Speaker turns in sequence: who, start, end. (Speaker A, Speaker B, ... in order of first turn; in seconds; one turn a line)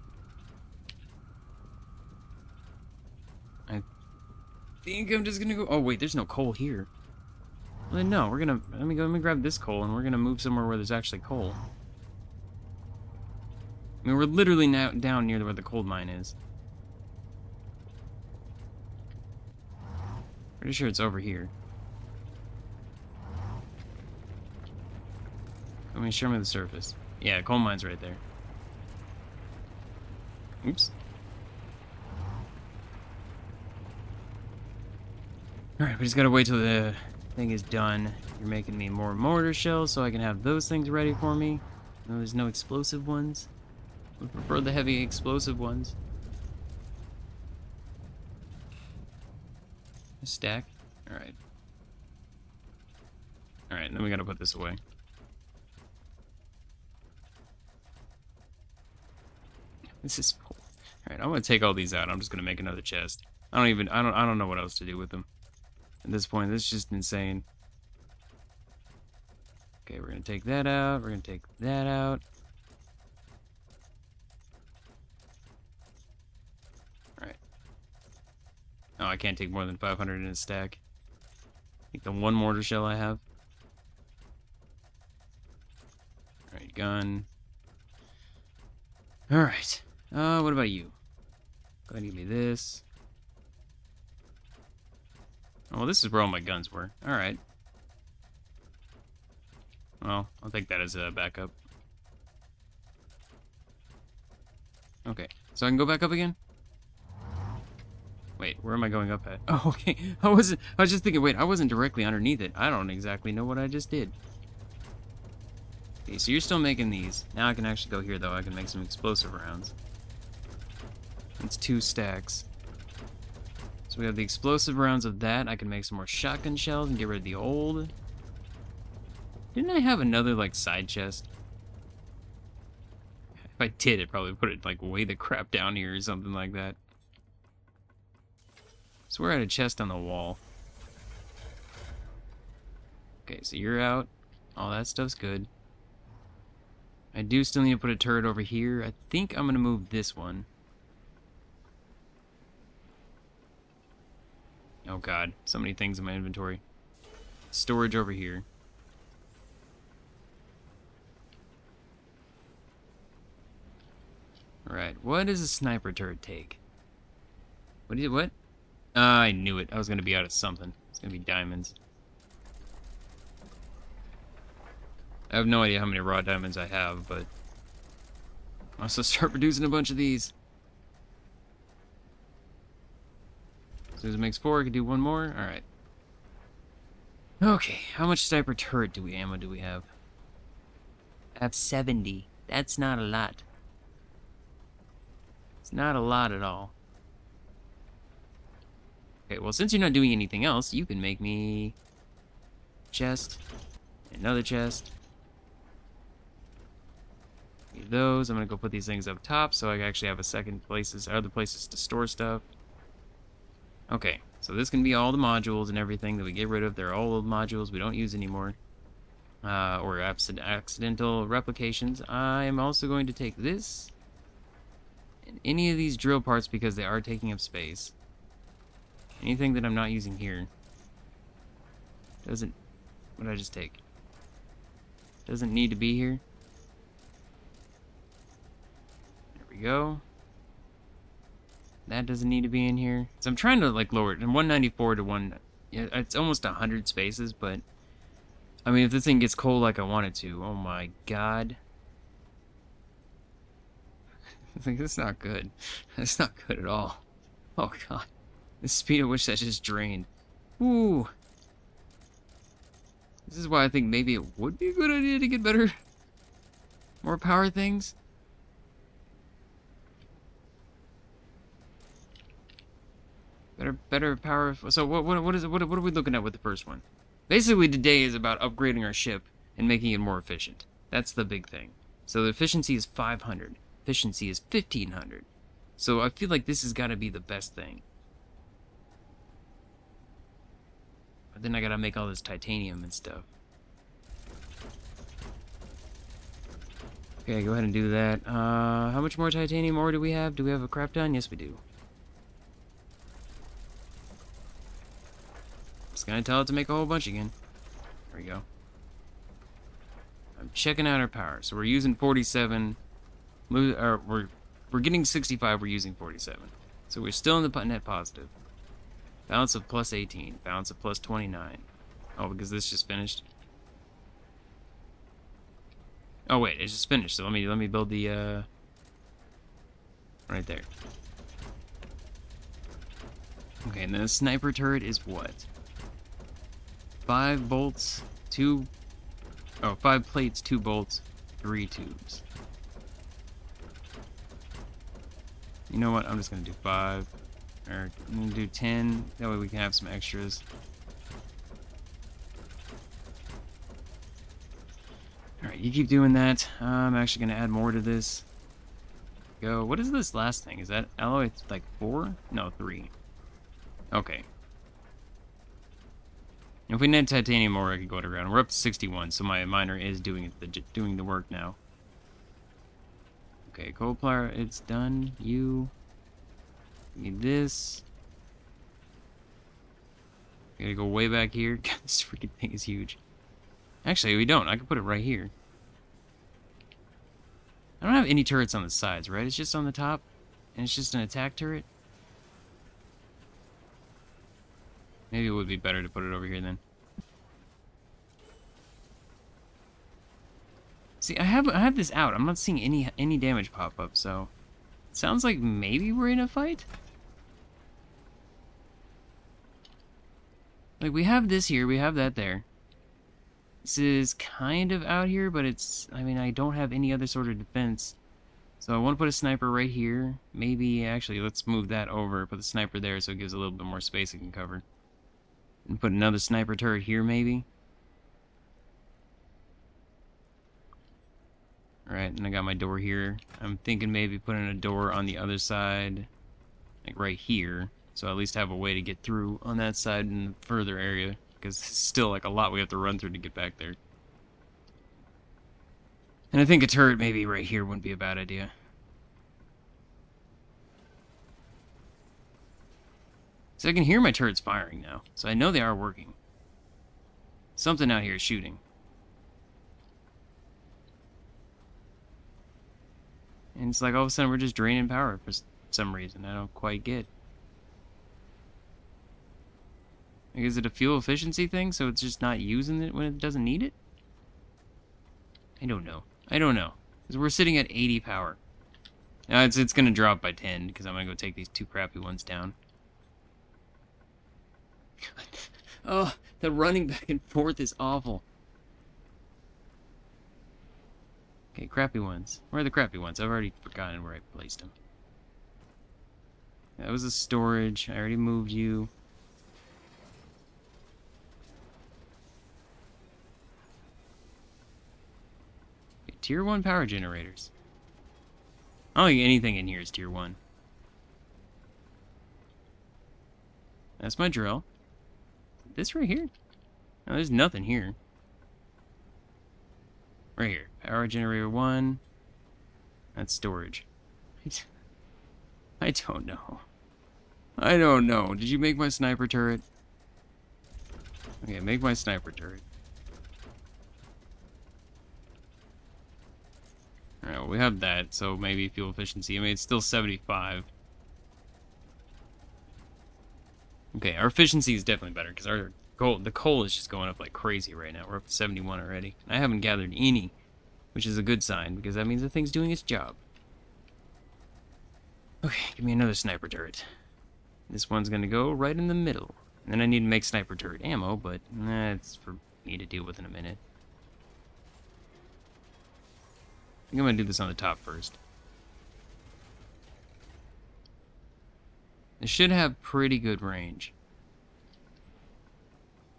Speaker A: 4.8-6.9
Speaker A: 7.9-11.6
Speaker A: 14.0-16.4
Speaker A: 20.6-21.5
Speaker A: 25.9-28.2
Speaker A: 30.6-30.9
Speaker A: 35.8-43.5
Speaker A: 44.2-46.0
Speaker A: 50.2-51.4
Speaker A: 53.7-54.8
Speaker A: 60.0-65.3
Speaker A: 66.0-67.4
Speaker A: 69.8-72.2
Speaker A: 79.0-80.8
Speaker A: 81.9-83.2
Speaker A: 86.5-87.3
Speaker A: 89.3-91.0
Speaker A: 91.9-92.8
Speaker A: 95.7-97.4
Speaker A: 100.0-101.5
Speaker A: 105.0-106.4
Speaker A: 108.4-114.1
Speaker A: 116.0-119.7
Speaker A: 121.4-122.5
Speaker A: 123.9-127.9
Speaker A: 129.5-131.3
Speaker A: 133.5-136.8
Speaker A: 139.1-140.4
Speaker A: 143.2-145.5
Speaker A: 147.1-150.5
Speaker A: 154.8-156.6
Speaker A: 157.5-158.4
Speaker A: 164.7-166.6
Speaker A: 167.9-168.3
Speaker A: 168.9-171.8
Speaker A: 175.3-177.3
Speaker A: 178.8-180.3
Speaker A: 184.0-185.6
Speaker A: 187.4-189.9
Speaker A: 191.3-193.4
Speaker A: 195.6-196.7
Speaker A: 199.3-201.8
Speaker A: 202.9-203.4
Speaker A: 204.1-204.9
Speaker A: 207.7-212.4
Speaker A: 213.9-218.6
Speaker A: 219.4-223.9
Speaker A: 225.2-227.9
Speaker A: 229.2-230.5
Speaker A: 232.2-232.5
Speaker A: 233.2-233.8
Speaker A: 235.2-236.2
Speaker A: 239.3-240.0
Speaker A: 241.8-247.6
Speaker A: 248.7-251.6
Speaker A: 254.5-257.0
Speaker A: 257.6-258.1
Speaker A: 258.6-260.1
Speaker A: 260.6-261.1
Speaker A: 263.2-265.7
Speaker A: 267.0-267.9
Speaker A: 273.6-287.8
Speaker A: 291.3-293.3
Speaker A: 297.2-301.6
Speaker A: 305.9-307.3
Speaker A: 308.1-308.4
Speaker A: 310.4-312.8
Speaker A: 313.5-318.3
Speaker A: 319.3-323.2
Speaker A: 326.3-328.5
Speaker A: 330.3-330.7
Speaker A: 333.6-335.5
Speaker A: 337.1-338.7
Speaker A: 339.6-342.2
Speaker A: 345.7-347.1
Speaker A: 347.6-350.4
Speaker A: 355.4-358.2
Speaker A: 359.4-362.9
Speaker A: 363.9-364.2
Speaker A: 366.7-371.6
Speaker A: 373.5-375.7
Speaker A: 376.9-377.8
Speaker A: 380.6-383.0
Speaker A: 383.8-385.3
Speaker A: 387.8-391.7
Speaker A: 395.1-396.6
Speaker A: 401.0-404.3
Speaker A: 404.9-406.7
Speaker A: 410.8-412.4
Speaker A: 413.6-418.0
Speaker A: 418.6-424.6
Speaker A: 425.6-427.4
Speaker A: 431.9-436.1
Speaker A: 436.8-443.8
Speaker A: 446.3-448.5
Speaker A: 453.6-456.1
Speaker A: 457.6-458.6
Speaker A: 463.5-467.1
Speaker A: 470.3-473.7
Speaker A: 475.6-478.4
Speaker A: 479.3-482.5
Speaker A: 485.0-488.2
Speaker A: 491.5-494.7
Speaker A: 496.8-498.9
Speaker A: 506.1-507.5
Speaker A: 508.9-510.4
Speaker A: 514.0-514.6
Speaker A: 515.6-516.3
Speaker A: 517.0-518.0
Speaker A: 520.4-522.0
Speaker A: 523.1-523.9
Speaker A: 525.8-526.6
Speaker A: 527.6-529.6
Speaker A: 531.4-532.6
Speaker A: 537.2-540.7
Speaker A: 543.9-550.4
Speaker A: 550.9-553.2
Speaker A: 555.4-556.9
Speaker A: 557.7-563.6
Speaker A: 566.9-568.2
Speaker A: 572.2-573.9